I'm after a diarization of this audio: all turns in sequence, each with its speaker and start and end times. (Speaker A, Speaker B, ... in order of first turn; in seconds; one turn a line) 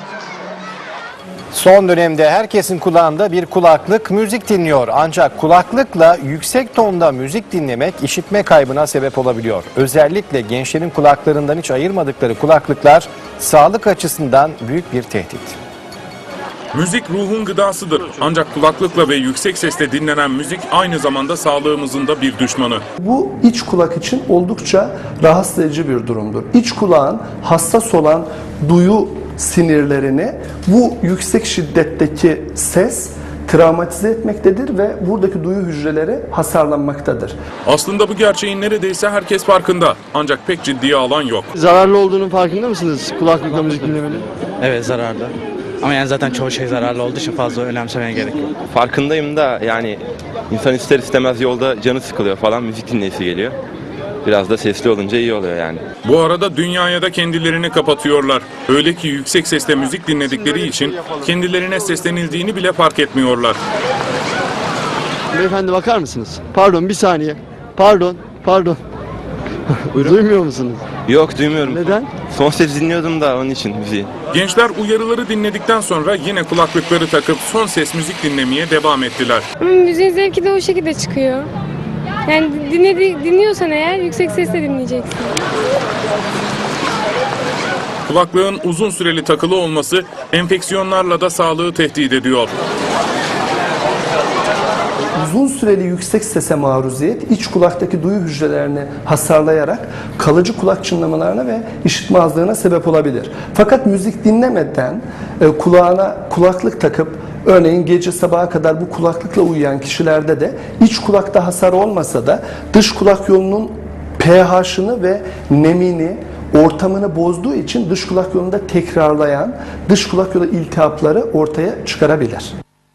Speaker A: 1.5-15.6
Speaker B: 16.7-22.8
Speaker C: 23.0-37.4
Speaker B: 37.6-41.5
Speaker D: 41.5-44.2
Speaker E: 44.6-48.5
Speaker F: 48.7-53.5
Speaker F: 54.2-55.8
Speaker B: 56.0-63.6
Speaker D: 65.3-68.8
Speaker D: 69.7-70.8
Speaker F: 71.0-74.1
Speaker D: 71.6-72.1
Speaker B: 74.3-79.4
Speaker G: 79.6-81.5
Speaker G: 82.3-85.3
Speaker B: 88.1-92.5
Speaker C: 95.2-122.5